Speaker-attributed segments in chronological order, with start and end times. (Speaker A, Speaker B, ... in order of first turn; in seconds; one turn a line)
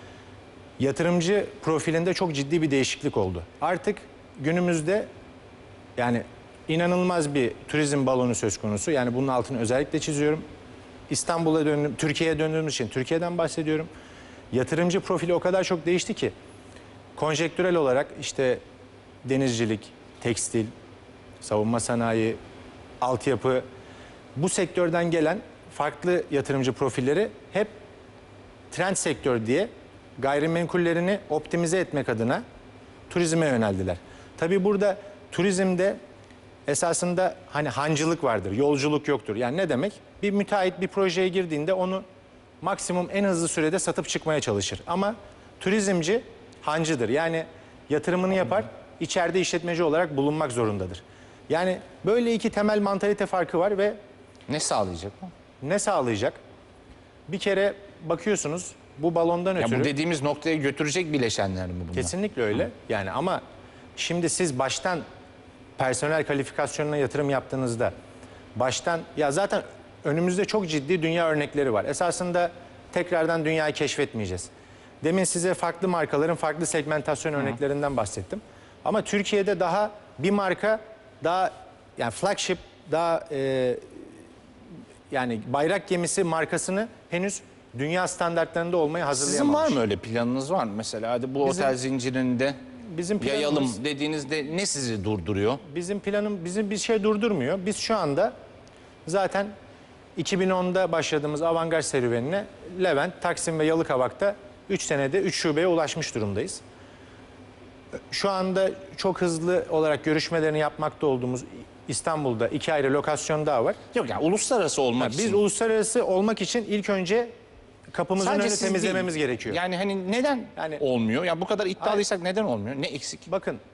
Speaker A: 0.8-5.1
Speaker A: 6.0-10.4
Speaker A: 11.1-13.9
Speaker A: 14.5-16.3
Speaker A: 17.2-18.6
Speaker A: 19.2-20.7
Speaker A: 21.4-22.4
Speaker A: 23.0-23.6
Speaker A: 24.4-27.7
Speaker A: 28.7-32.4
Speaker A: 33.1-36.0
Speaker A: 36.7-42.0
Speaker A: 42.6-54.0
Speaker B: 54.5-55.3
Speaker A: 55.6-56.4
Speaker A: 57.3-59.9
Speaker B: 59.6-62.1
Speaker A: 61.9-63.4
Speaker A: 64.0-65.0
Speaker A: 65.8-67.9
Speaker A: 68.6-74.5
Speaker A: 75.0-83.8
Speaker A: 85.1-89.8
Speaker B: 89.1-92.6
Speaker A: 91.4-91.8
Speaker A: 92.9-93.8
Speaker B: 93.2-95.6
Speaker A: 95.7-98.3
Speaker A: 99.1-99.5
Speaker A: 100.2-106.6
Speaker A: 108.1-113.8
Speaker B: 113.9-115.4
Speaker A: 115.0-117.3
Speaker A: 117.9-119.6
Speaker B: 118.2-123.3
Speaker A: 120.6-120.8
Speaker A: 123.3-123.6